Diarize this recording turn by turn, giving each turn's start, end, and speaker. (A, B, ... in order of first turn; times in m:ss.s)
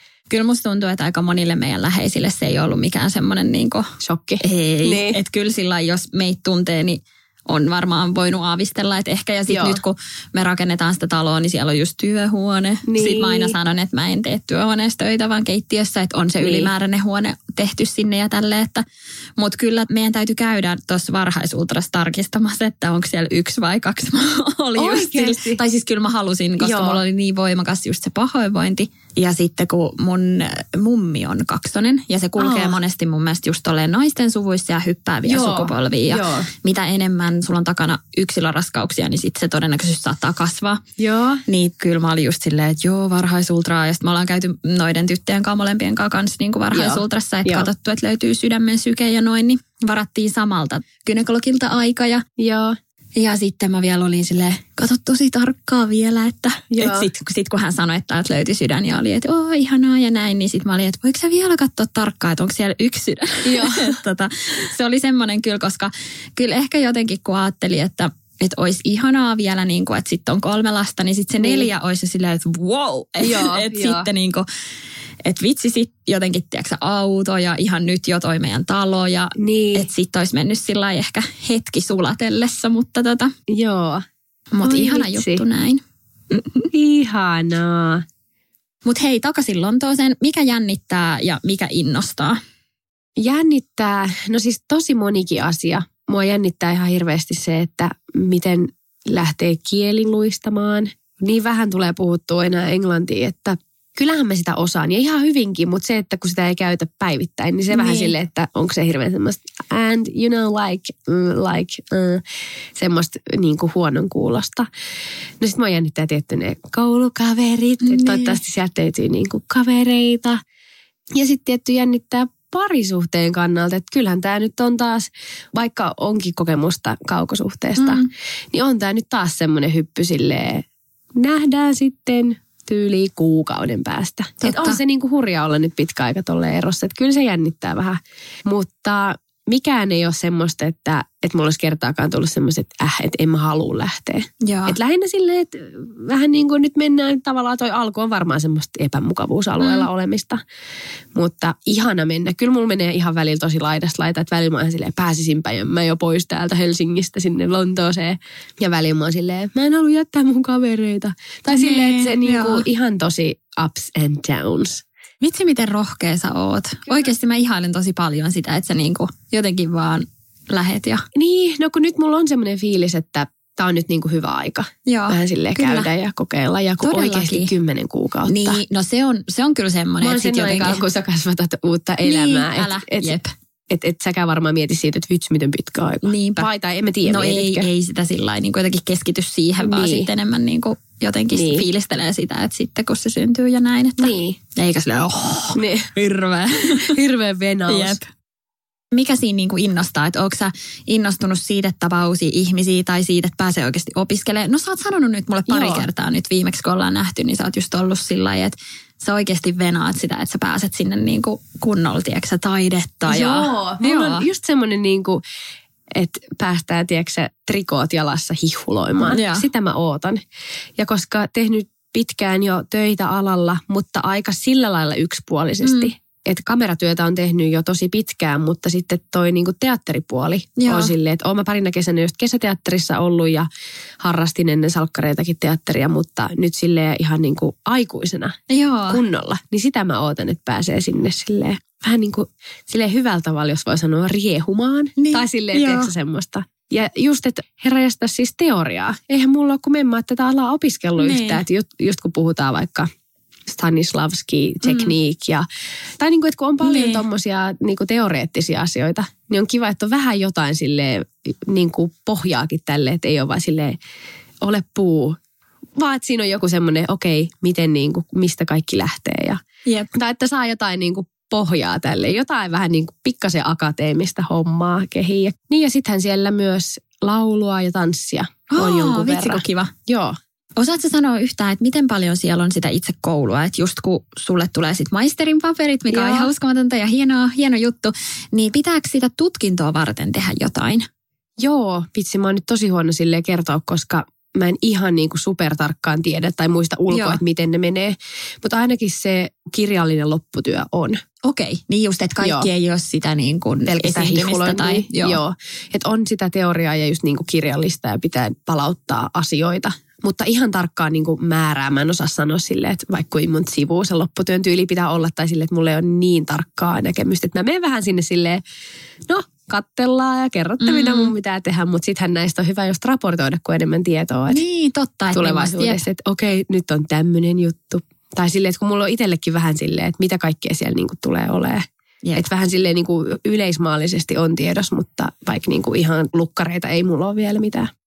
0:00.3-0:18.8 A
0:04.0-0:05.2 B
0:09.5-0:09.8 B
0:12.9-0:13.6 B
0:16.4-0:16.7 B
0:19.4-0:40.8 A
0:24.8-0:25.6 B
0:26.6-0:27.0 B
0:32.4-0:32.8 B
0:35.2-0:36.5 B
0:41.0-0:41.4 B
0:41.5-0:52.2 A
0:46.7-0:47.7 B
0:52.4-0:52.8 B
0:53.2-1:14.5 A
0:56.7-0:57.1 B
1:03.4-1:04.0 B
1:11.4-1:11.7 B
1:13.2-1:14.1 B
1:15.2-1:23.3 A
1:19.4-1:19.9 B
1:23.5-1:24.0 B
1:24.5-1:26.7 A
1:24.6-1:25.4 B
1:26.7-1:28.0 B
1:28.8-1:32.4 A
1:33.2-1:52.2 B
1:47.7-1:48.1 A
1:52.8-1:54.7 B
1:55.4-2:00.4 B
1:57.8-1:58.4 A
2:01.1-2:30.4 B
2:07.8-2:08.1 A
2:14.4-2:14.8 A
2:24.4-2:24.8 A
2:29.6-2:29.9 A
2:31.1-2:44.8 B
2:41.5-2:42.6 A
2:45.2-2:51.0 A
2:51.2-2:58.6 B
2:54.9-2:55.9 A
2:56.8-2:57.5 A
2:58.3-3:00.8 A
3:00.0-3:03.2 B
3:02.0-3:03.3 A
3:03.7-3:07.7 B
3:06.0-3:06.5 A
3:07.1-3:16.9 A
3:09.6-3:10.1 B
3:11.3-3:11.7 B
3:14.0-3:14.4 B
3:15.6-3:15.9 B
3:16.7-3:18.0 B
3:17.7-3:18.1 A
3:18.9-3:34.3 A
3:25.5-3:25.9 B
3:33.0-3:35.2 B
3:35.9-3:40.2 B
3:39.0-3:39.5 A
3:40.8-3:53.5 B
3:45.6-3:45.9 A
3:50.6-3:50.9 A
3:54.0-3:58.4 B
3:58.5-3:59.0 A
3:58.9-4:12.9 B
4:05.0-4:05.9 A
4:11.0-4:11.4 A
4:13.5-4:15.5 B
4:14.6-4:14.9 A
4:16.0-4:23.8 B
4:16.6-4:17.0 A
4:24.4-4:25.2 B
4:25.8-4:29.4 B
4:29.9-4:40.2 B
4:38.5-4:39.7 A
4:40.6-4:50.9 A
4:45.9-4:46.3 B
4:51.4-5:01.0 B
4:56.9-4:57.2 A
5:01.2-5:05.2 A
5:02.2-5:02.5 B
5:03.6-5:18.4 B
5:19.1-5:24.4 B
5:20.6-5:21.1 A
5:24.3-5:25.8 A
5:25.1-5:31.6 B
5:32.2-5:37.7 B